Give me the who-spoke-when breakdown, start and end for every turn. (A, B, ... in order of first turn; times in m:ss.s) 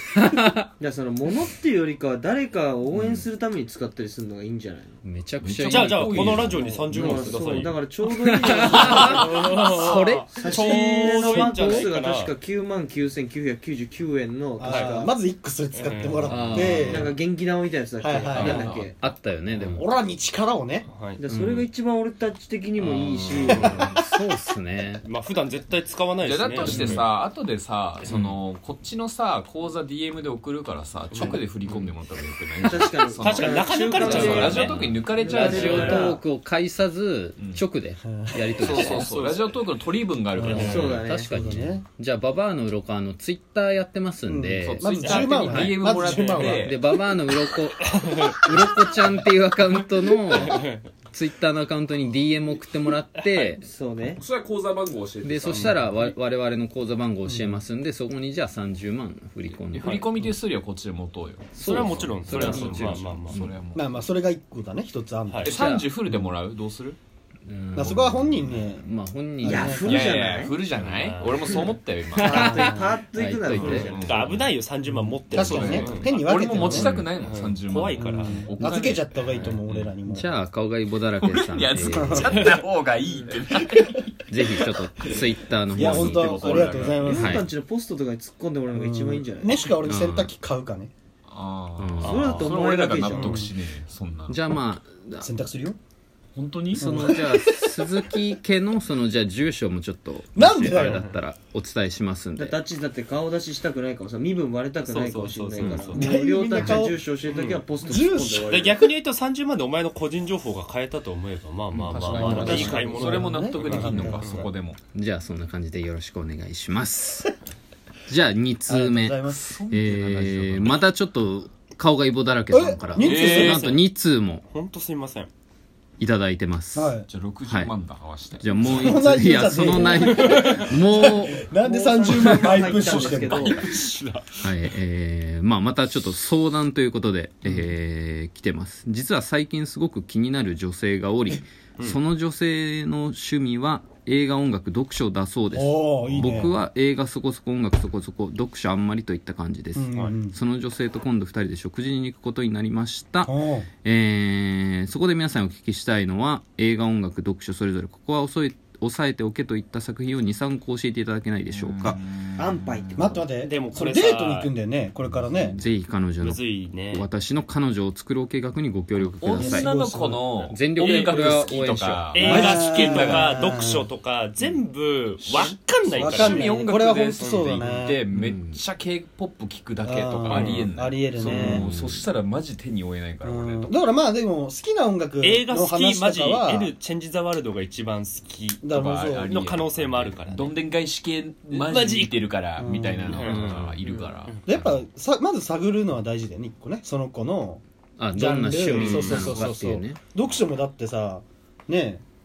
0:00.1-0:00.7 A
0:00.8-0:05.0 B
0:02.9-0:03.3 C
0:05.0-0:06.6 A
0:05.4-0:07.2 C
0:05.6-0:07.8 D
0:06.4-0:15.1 B
0:08.2-0:10.3 A
0:08.8-0:09.2 C
0:08.9-0:09.3 E
0:09.5-0:12.4 D
0:10.4-0:11.2 E
0:11.1-0:11.9 A
0:14.6-0:17.2 E
0:14.7-0:15.1 D
0:15.7-0:16.7 D
0:16.3-0:17.1 A
0:16.8-0:19.0 B
0:18.0-0:18.7 E
0:18.3-0:18.9 C
0:18.3-0:19.8 A
0:19.6-0:20.9 E
0:20.9-0:21.2 D
0:21.2-0:23.8 B
0:21.3-0:21.7 A
0:22.8-0:25.0 A
0:23.5-0:24.0 E
0:23.5-0:23.9 D
0:25.0-0:27.1 D
0:26.2-0:36.1 C
0:26.6-0:26.9 A
0:28.1-0:28.4 A
0:31.1-0:31.4 D
0:32.6-0:36.2 B
0:33.1-0:34.9 D
0:34.0-0:39.1 A
0:35.4-0:36.1 D
0:37.4-0:37.6 C
0:38.1-0:39.4 E
0:38.6-0:41.1 C
0:40.4-0:41.9 E
0:40.5-0:45.2 A
0:40.5-0:41.3 B
0:44.3-0:46.9 E
0:44.6-0:46.8 C
0:46.4-0:53.6 A
0:48.0-0:48.4 D
0:50.4-0:50.8 D
0:53.6-0:54.2 B
0:54.2-0:56.0 C
0:55.2-0:59.9 A
0:55.5-0:55.8 D
0:57.2-0:57.6 E
0:59.5-1:03.9 C
0:59.8-1:00.1 D
1:01.6-1:03.4 D
1:01.6-1:03.5 A
1:03.7-1:05.5 E
1:05.3-1:05.6 D
1:05.4-1:05.9 A
1:05.4-1:07.0 C
1:07.5-1:09.9 A
1:07.8-1:08.9 E
1:09.4-1:10.2 E
1:09.4-1:10.6 B
1:09.9-1:12.7 C
1:10.9-1:11.5 D
1:11.5-1:14.3 B
1:12.3-1:13.0 E
1:12.3-1:14.0 A
1:13.5-1:14.5 C
1:14.0-1:16.1 D
1:14.9-1:17.0 E
1:15.3-1:19.1 C
1:16.7-1:18.5 D
1:18.0-1:20.3 E
1:18.6-1:19.0 A
1:19.2-1:19.6 D
1:20.1-1:22.5 A
1:21.2-1:24.2 C
1:21.9-1:22.4 E
1:24.3-1:26.5 A
1:25.7-1:27.3 C
1:25.8-1:27.5 E
1:26.4-1:29.6 B
1:27.1-1:27.5 A
1:28.7-1:30.9 E
1:29.8-1:30.3 A
1:31.3-1:34.4 C
1:31.8-1:32.3 A
1:32.0-1:33.5 B
1:32.0-1:32.5 D
1:33.0-1:33.5 E
1:34.3-1:35.3 A
1:35.2-1:35.8 E
1:36.4-1:37.0 C
1:36.7-1:42.6 A
1:36.8-1:38.0 E
1:40.4-1:41.1 E
1:40.8-1:41.1 D
1:42.4-1:48.9 B
1:44.8-1:46.1 D
1:45.9-1:47.0 E
1:46.6-1:47.7 D
1:47.8-1:48.9 E
1:48.4-1:54.5 D
1:51.7-1:54.8 C
1:52.1-1:54.5 E
1:52.2-1:53.4 B
1:54.9-1:57.3 A
1:58.1-2:04.4 A
1:58.7-1:59.5 E
1:59.4-2:00.8 C
2:02.5-2:03.6 E
2:03.0-2:03.8 D
2:03.0-2:03.6 C
2:04.5-2:05.3 D
2:06.0-2:07.0 A
2:06.7-2:07.1 E
2:07.1-2:09.0 C
2:07.5-2:07.7 A
2:08.4-2:11.4 A
2:08.6-2:13.6 E
2:11.6-2:13.6 B
2:12.2-2:14.7 D
2:14.4-2:33.3 A
2:25.5-2:26.6 E
2:29.8-2:30.4 E
2:33.2-2:33.7 E
2:33.8-2:42.0 A
2:41.5-2:42.9 C
2:42.4-2:43.3 B
2:43.0-2:45.6 E
2:43.4-2:44.5 D
2:45.6-2:49.7 A
2:46.2-2:47.1 D
2:49.2-2:53.7 C
2:49.3-2:50.3 E
2:50.5-2:52.1 A
2:50.8-2:51.1 D
2:52.1-2:56.4 D
2:52.2-2:53.9 E
2:55.2-3:03.7 C
2:55.9-2:58.0 E
2:57.2-2:57.5 D
2:58.1-2:58.6 A
2:59.8-3:01.8 E
3:03.2-3:06.7 E
3:05.2-3:08.6 D
3:08.6-3:09.4 E
3:08.7-3:14.8 C
3:09.2-3:10.6 D
3:11.5-3:12.2 D
3:12.6-3:13.4 E
3:13.1-3:14.4 D
3:13.3-3:13.8 A
3:14.5-3:17.6 E
3:18.0-3:20.0 A
3:18.1-3:22.0 E
3:18.8-3:19.3 D
3:19.1-3:19.5 C